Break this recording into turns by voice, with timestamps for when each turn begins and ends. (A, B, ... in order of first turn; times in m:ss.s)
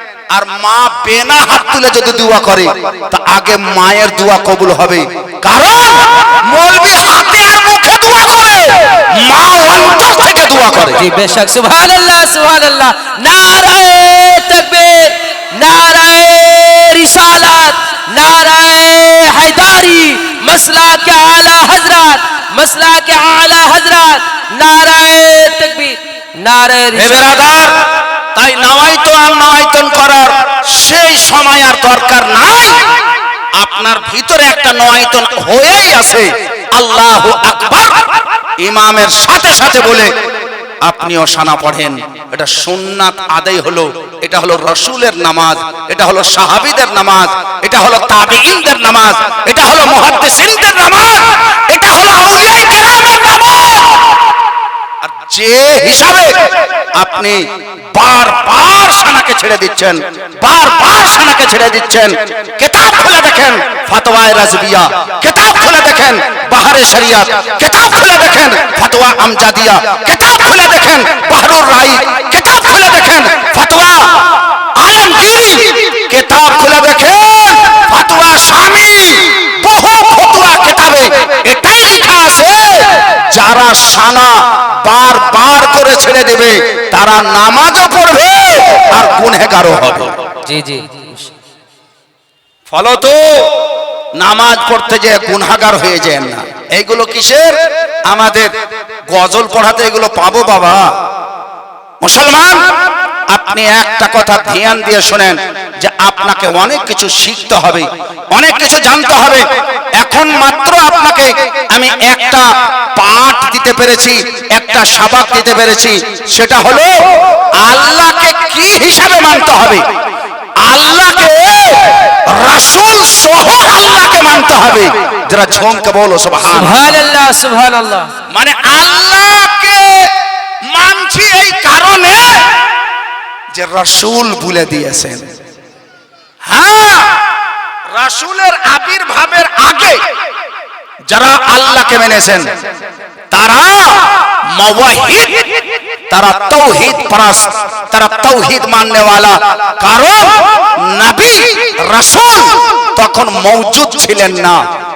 0:00.3-0:11.0 A
0:11.0-0:27.4 B
0:26.9-0:27.7 A
0:28.3-0:32.8 A
0:33.6-0:38.1 A
0:38.6-0:40.1 A
0:40.8-0:54.2 A
0:55.0-0:56.3 A
0:57.0-0:57.4 A
0:57.9-1:30.1 A
1:30.4-1:31.3 B
1:32.7-1:33.5 A
1:34.2-1:37.5 A
1:38.1-1:38.5 A
1:39.1-1:40.8 A
1:42.0-1:42.6 A
1:43.3-1:49.4 A
1:50.0-1:56.9 A
1:57.6-1:59.8 A
2:00.6-2:06.8 A
2:06.4-2:08.1 B
2:08.3-2:10.1 A
2:10.7-2:12.4 A
2:13.5-2:15.2 A
2:16.5-2:17.2 A
2:17.9-2:20.0 A
2:21.1-2:22.4 A
2:23.3-2:34.6 A